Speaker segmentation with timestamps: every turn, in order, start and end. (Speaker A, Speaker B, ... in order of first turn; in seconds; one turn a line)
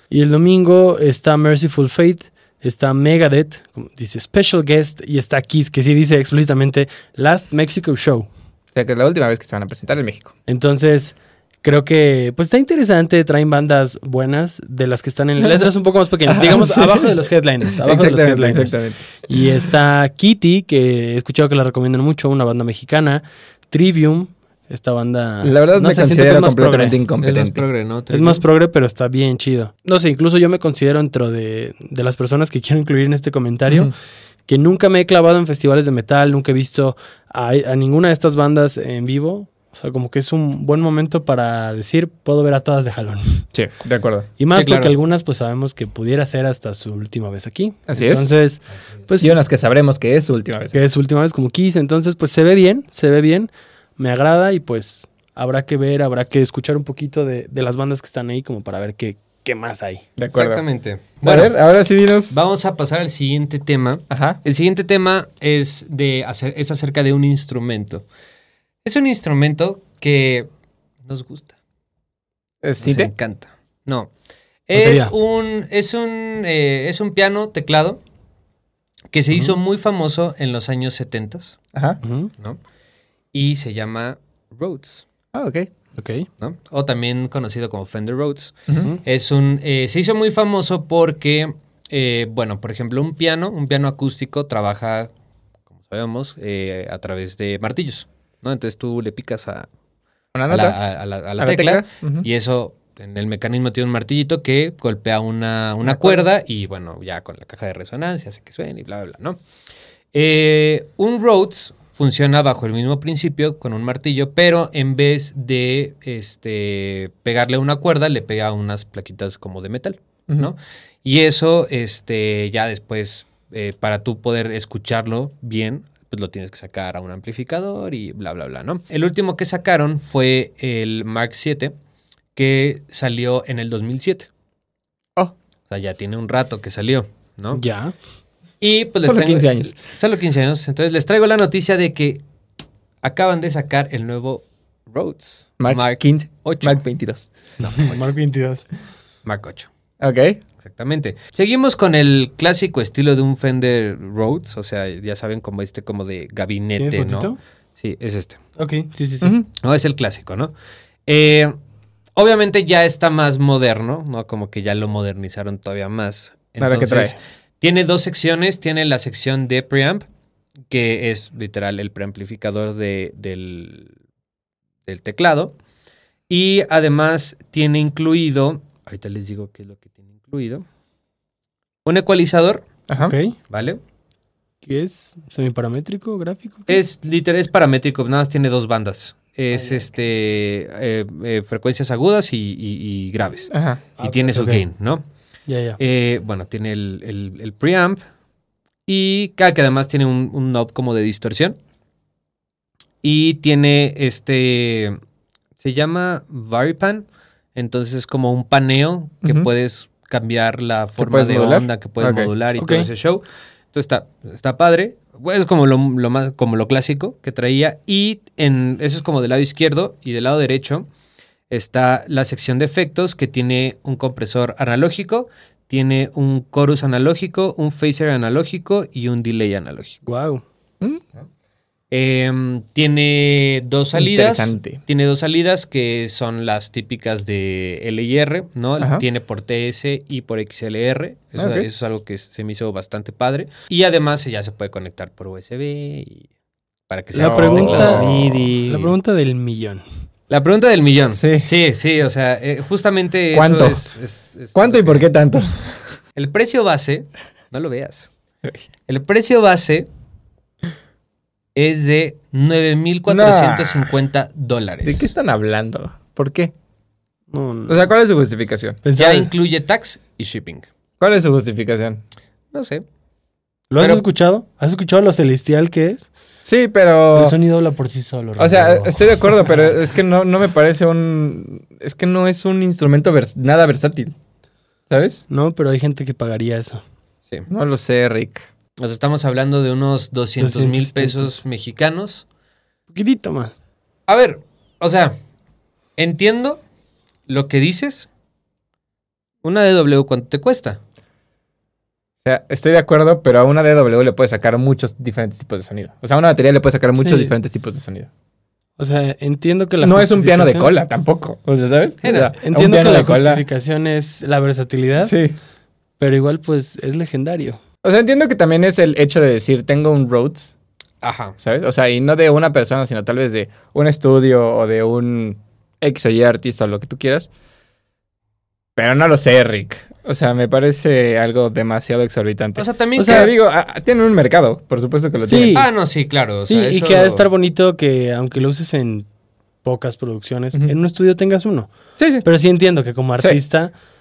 Speaker A: 0.1-8.3
Speaker B: 8.8-10.3
Speaker A: 10.5-18.8
Speaker B: 16.3-17.1
Speaker B: 17.8-19.5
Speaker A: 19.3-27.0
Speaker B: 25.4-27.6
Speaker C: 27.2-28.4
Speaker A: 28.1-34.0
Speaker A: 34.5-43.5
Speaker B: 43.5-44.3
Speaker A: 44.4-49.4
Speaker C: 44.5-44.9
Speaker B: 47.9-48.3
Speaker B: 49.2-50.8
Speaker A: 50.7-60.0
Speaker B: 60.2-60.6
Speaker C: 60.4-61.5
Speaker B: 61.2-62.4
Speaker C: 62.3-68.0
Speaker B: 64.1-64.4
Speaker C: 68.8-70.5
Speaker C: 71.0-71.6
Speaker B: 72.6-73.1
Speaker C: 72.8-74.1
Speaker C: 74.7-78.0
Speaker A: 74.8-75.1
Speaker C: 79.1-81.6
Speaker B: 81.7-82.0
Speaker A: 82.0-82.3
Speaker C: 83.3-85.1
Speaker B: 85.3-85.7
Speaker A: 86.0-86.3
Speaker C: 86.4-95.1
Speaker C: 95.8-99.7
Speaker B: 100.3-100.8
Speaker C: 100.5-109.4
Speaker B: 101.4-102.3
Speaker B: 105.8-106.3
Speaker C: 110.1-131.7
Speaker C: 132.4-134.3
Speaker C: 135.7-137.6
Speaker A: 137.6-137.9
Speaker C: 138.6-142.2
Speaker B: 139.0-139.8
Speaker C: 143.0-146.8
Speaker B: 145.6-147.3
Speaker C: 147.6-147.9
Speaker A: 147.8-148.7
Speaker C: 149.2-149.7
Speaker B: 150.0-150.4
Speaker C: 150.6-158.4
Speaker A: 156.8-157.4
Speaker A: 158.6-159.4
Speaker B: 159.2-159.5
Speaker C: 159.6-160.5
Speaker C: 161.1-161.6
Speaker C: 162.2-170.1
Speaker B: 166.6-167.2
Speaker C: 170.7-173.9
Speaker C: 174.9-175.6
Speaker C: 176.3-180.7
Speaker C: 181.8-182.7
Speaker B: 182.9-183.2
Speaker A: 182.9-183.4
Speaker C: 183.5-183.8
Speaker A: 184.6-186.8
Speaker C: 186.7-195.0
Speaker B: 193.5-193.8
Speaker A: 194.0-194.6
Speaker A: 195.5-195.8
Speaker C: 195.8-198.0
Speaker C: 198.9-201.6
Speaker C: 203.0-205.0
Speaker C: 205.6-220.9
Speaker B: 211.0-212.3
Speaker A: 212.6-212.9
Speaker C: 221.5-230.0
Speaker A: 230.1-230.4
Speaker B: 230.8-231.1
Speaker C: 231.9-246.3
Speaker B: 233.9-234.8
Speaker B: 238.8-239.0
Speaker B: 241.4-241.7
Speaker C: 246.9-248.9
Speaker A: 247.1-248.1
Speaker B: 247.2-248.5
Speaker A: 248.7-249.8
Speaker C: 250.3-255.1
Speaker B: 251.2-251.5
Speaker B: 253.3-253.9
Speaker B: 254.6-255.8
Speaker C: 256.1-258.1
Speaker C: 258.9-259.9
Speaker C: 261.6-265.1
Speaker B: 263.1-263.9
Speaker B: 264.8-266.5
Speaker A: 267.3-267.9
Speaker B: 267.7-268.8
Speaker A: 268.8-269.3
Speaker C: 268.9-270.7
Speaker B: 271.0-272.0
Speaker C: 272.5-272.8
Speaker A: 273.7-276.1
Speaker C: 273.8-274.0
Speaker B: 276.4-277.4
Speaker A: 277.1-279.7
Speaker B: 278.4-284.1
Speaker B: 284.9-285.2
Speaker A: 285.3-286.8
Speaker B: 287.5-288.4
Speaker C: 288.8-292.2
Speaker A: 290.4-291.4
Speaker A: 292.9-293.5
Speaker C: 294.1-295.2
Speaker C: 296.0-296.6
Speaker C: 297.3-298.1
Speaker C: 299.4-300.8
Speaker B: 302.2-308.1
Speaker A: 307.0-307.3
Speaker A: 308.8-310.7
Speaker B: 309.8-313.4
Speaker C: 312.0-312.3
Speaker A: 312.4-315.1
Speaker B: 315.0-315.4
Speaker A: 316.0-317.6
Speaker B: 317.8-320.6
Speaker C: 321.0-321.4
Speaker B: 321.4-327.3
Speaker B: 328.8-335.6
Speaker C: 332.6-333.3
Speaker A: 333.0-333.3
Speaker A: 335.3-335.7
Speaker C: 335.5-337.3
Speaker A: 336.5-339.1
Speaker A: 339.6-341.7
Speaker B: 342.0-342.3
Speaker A: 342.2-343.7